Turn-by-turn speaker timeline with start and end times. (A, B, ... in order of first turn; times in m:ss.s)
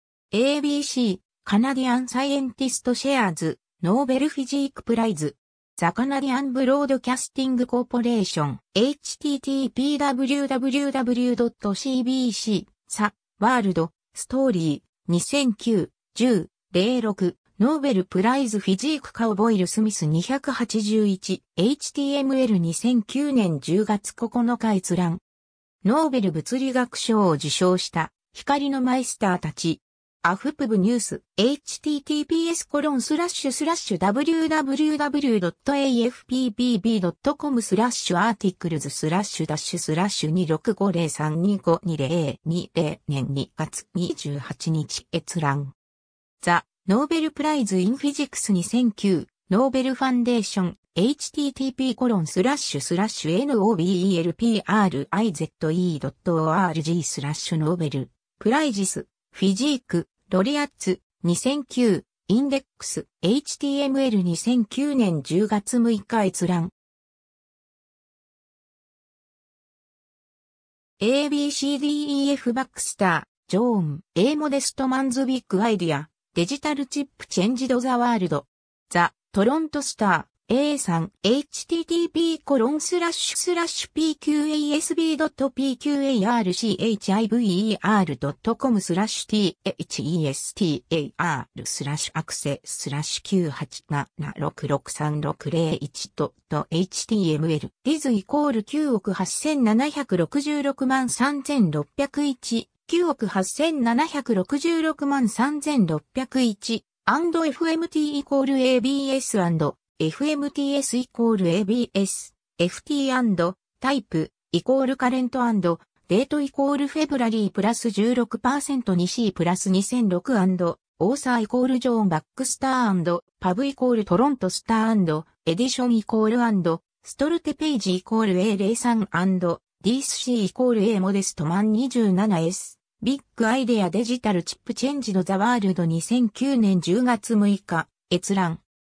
0:00.3-0:25.2 A
0:25.8-0:45.8 A
0:46.4-1:06.7 A
1:11.0-2:18.6 A